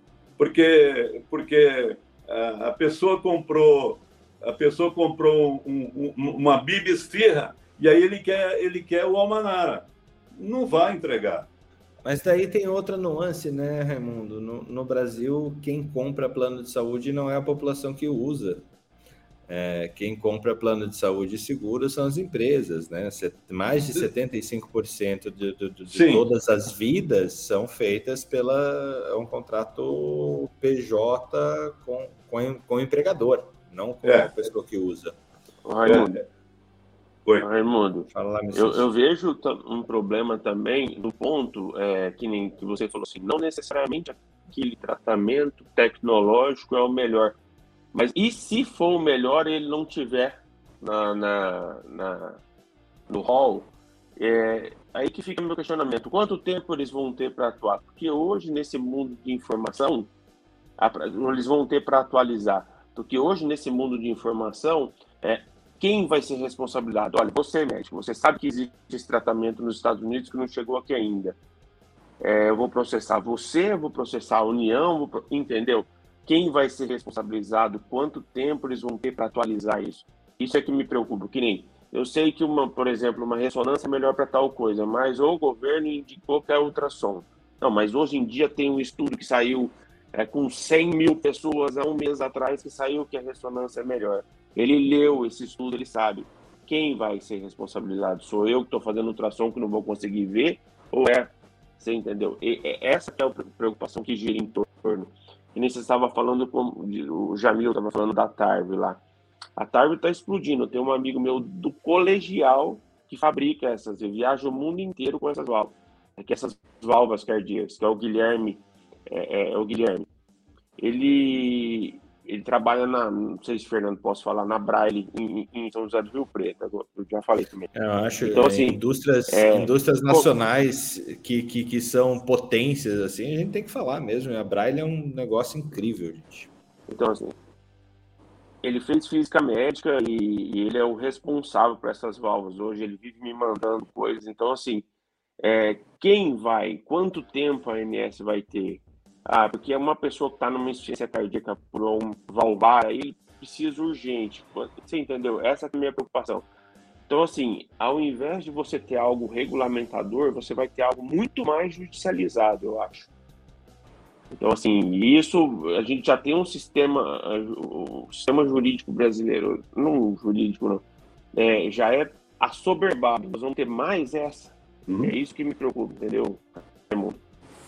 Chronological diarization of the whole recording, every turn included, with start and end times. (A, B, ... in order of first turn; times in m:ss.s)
0:00.4-0:11.5 A
0:12.0-0:18.7 B
0:19.5-0:35.2 B
0:25.9-0:26.2 A
0:34.0-0:34.3 A
0:35.6-0:36.2 C
0:35.8-0:36.2 A
0:37.4-0:47.4 C
0:38.1-0:38.9 B
0:47.9-0:52.4 C
0:53.1-1:00.1 C
1:00.8-1:11.4 C
1:12.2-1:49.0 C
1:49.6-2:00.1 C
2:00.8-2:10.3 C
2:07.8-2:16.5 B
2:16.9-2:17.3 C
2:18.6-2:24.9 C
2:25.4-2:36.5 C
2:37.1-2:43.1 C
2:44.3-2:57.2 C
2:54.9-2:55.1 A